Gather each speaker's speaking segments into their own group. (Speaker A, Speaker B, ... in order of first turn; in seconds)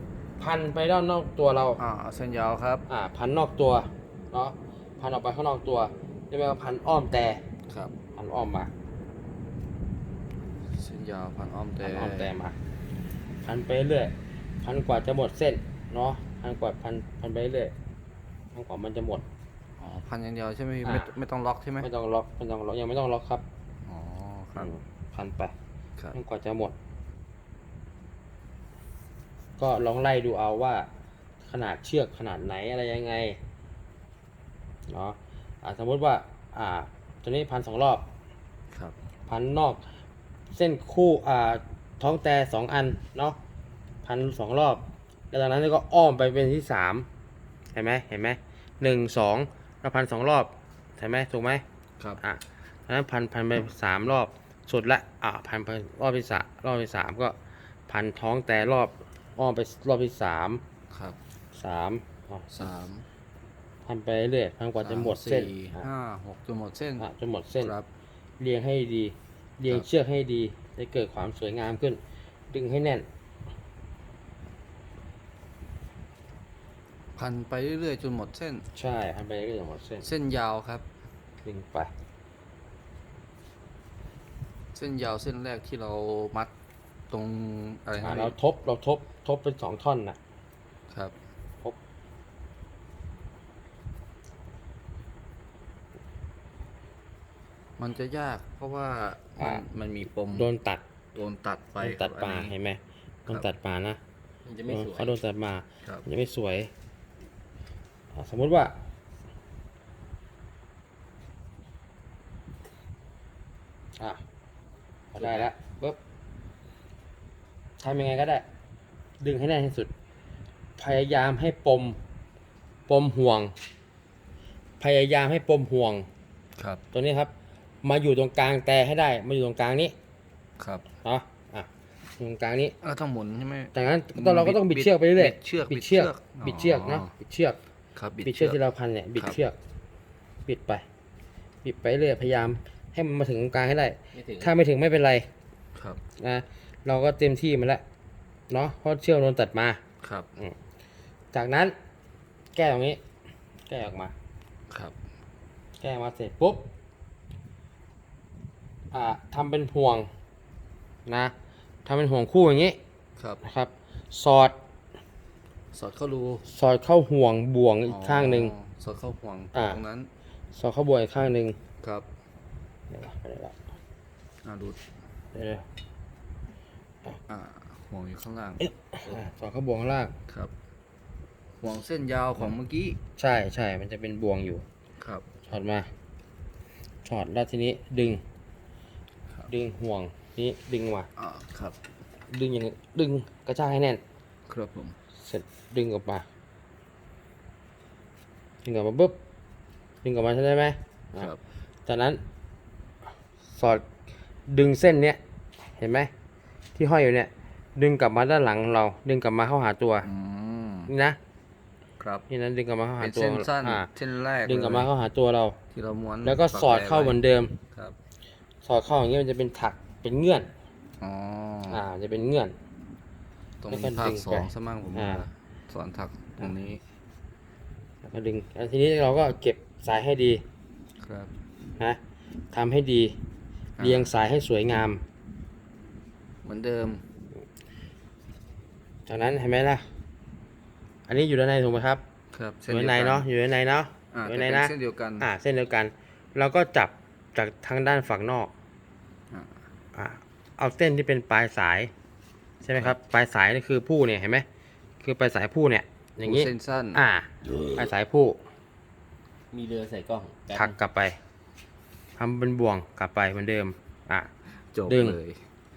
Speaker A: 0.4-1.8, 2.9-7.4, 8.2-8.7, 11.8-12.5, 13.4-17.7, 18.5-19.2, 20.8-21.1, 21.8-23.4, 24.6-25.5, 26.1-26.7, 29.6-30.9, 31.4-33.4, 34.9-38.0, 39.3-39.8, 40.5-43.4, 44.0-47.1, 47.7-51.6, 52.2-57.3, 57.9-60.6, 61.5-62.5, 63.9-65.9, 67.0-67.7, 68.4-72.0, 72.5-73.0, 78.7-80.1, 81.4-81.9, 88.0-90.2, 99.4-99.6, 100.3-100.8, 101.8-104.0, 104.7-106.7, 108.1-108.7, 115.1-116.0, 117.8-118.4, 119.2-119.9, 120.8-122.0, 122.9-123.5, 124.8-126.1, 126.9-127.3, 127.8-129.9, 131.0-132.8, 133.7-137.6, 138.2-139.5, 140.4-140.8, 141.6-145.3, 146.2-147.8, 148.5-149.8, 151.3-151.7, 152.5-153.0, 153.7-154.1, 155.8-156.6, 158.9-160.1, 161.1-161.3, 161.8-162.8, 163.4-164.5, 166.4-168.5, 169.5-169.8, 170.5-171.6, 172.9-173.7, 175.3-175.6, 178.6-180.1, 183.2-184.6, 185.5-185.9, 187.0-188.2, 189.5-191.1, 192.3-194.0, 195.2-196.2, 198.6-199.1, 200.0-201.3, 201.8-202.2, 203.5-203.8, 204.5-205.2, 205.8-206.1, 206.8-210.1, 210.9-211.2, 212.3-213.9, 214.4-215.6, 216.2-217.6, 218.6-220.5, 221.7-222.5, 223.7-225.2, 228.0-230.4, 232.5-233.1, 233.8-235.0, 239.1-239.8, 241.1-242.0, 242.7-248.5, 249.9-251.9, 252.6-254.4, 255.0-258.4, 260.5-261.2, 262.2-264.3, 264.9-265.2
Speaker B: 1.8-2.8, 10.7-12.3, 19.8-21.9, 23.9-24.7, 60.9-61.2, 62.5-63.0, 64.8-67.0, 67.6-67.9, 77.2-78.6, 80.0-80.8, 84.7-86.5, 87.1-88.3, 97.8-100.5, 101.1-102.5, 126.6-126.8, 130.6-130.8, 132.8-137.1, 137.9-138.6, 145.8-146.0, 150.0-150.3, 163.2-163.4, 165.7-166.4, 167.9-170.1, 174.4-174.8, 177.3-178.6, 181.6-183.0, 185.0-185.2, 191.2-191.8, 194.5-194.9, 210.0-210.9, 212.0-212.2, 213.0-214.9, 215.7-217.2, 221.0-221.8, 223.6-226.8, 231.0-231.3, 233.8-234.1, 236.4-237.0, 242.3-243.3, 244.1-245.3, 256.2-257.0, 264.7-265.4
Speaker C: 104.4-105.1, 144.1-144.5, 259.5-260.8